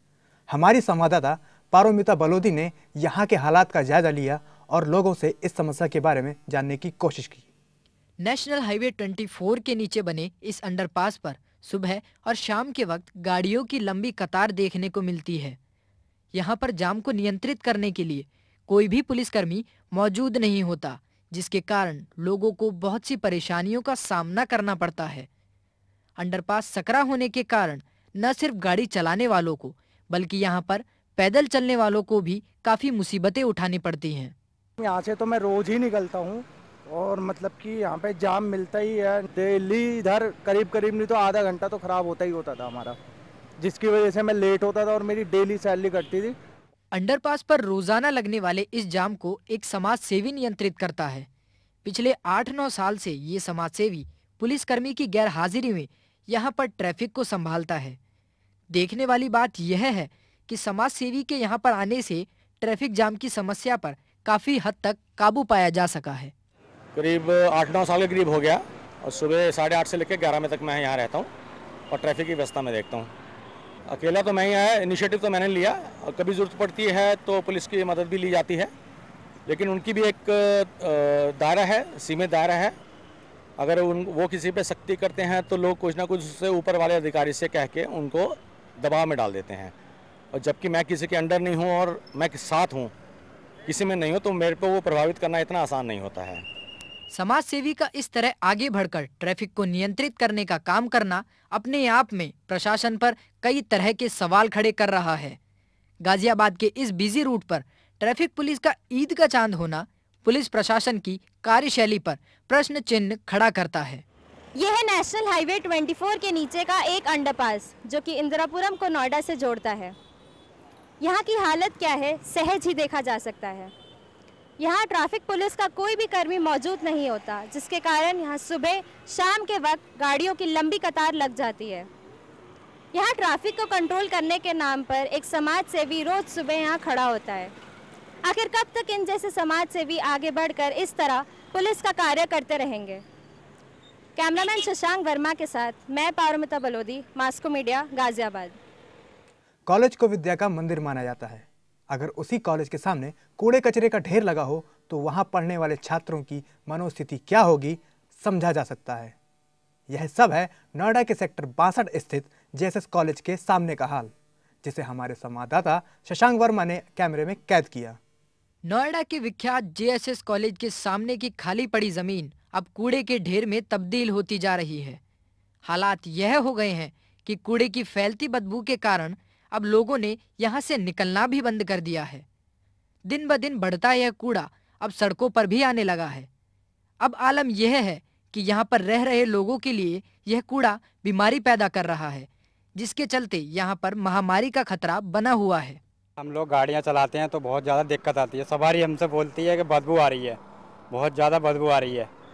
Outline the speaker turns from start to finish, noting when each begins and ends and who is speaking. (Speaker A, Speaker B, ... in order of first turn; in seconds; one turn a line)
Speaker A: 0.5-7.5
Speaker B: 8.2-15.6
Speaker B: 16.3-25.3
Speaker B: 26.2-34.3
Speaker C: 34.8-43.0
Speaker C: 43.6-46.3
Speaker B: 46.9-51.3
Speaker B: 51.8-58.0
Speaker B: 58.7-66.3
Speaker D: 66.9-71.3
Speaker D: 71.9-73.1
Speaker D: 73.9-78.7
Speaker D: 79.5-82.8
Speaker D: 83.6-89.7
Speaker D: 90.3-92.9
Speaker D: 93.7-96.4
Speaker B: 97.1-105.4
Speaker B: 106.0-114.0
Speaker E: 114.6-119.9
Speaker E: 121.0-123.7
Speaker E: 124.6-131.9
Speaker E: 132.9-137.5
Speaker E: 138.3-143.0
Speaker E: 144.2-148.5
Speaker A: 149.7-159.1
Speaker A: 159.9-164.1
Speaker A: 164.6-168.0
Speaker B: 168.6-175.0
Speaker B: 175.6-182.2
Speaker B: 183.1-186.3
Speaker B: 187.0-195.8
Speaker F: 196.2-200.4
Speaker F: 200.9-202.1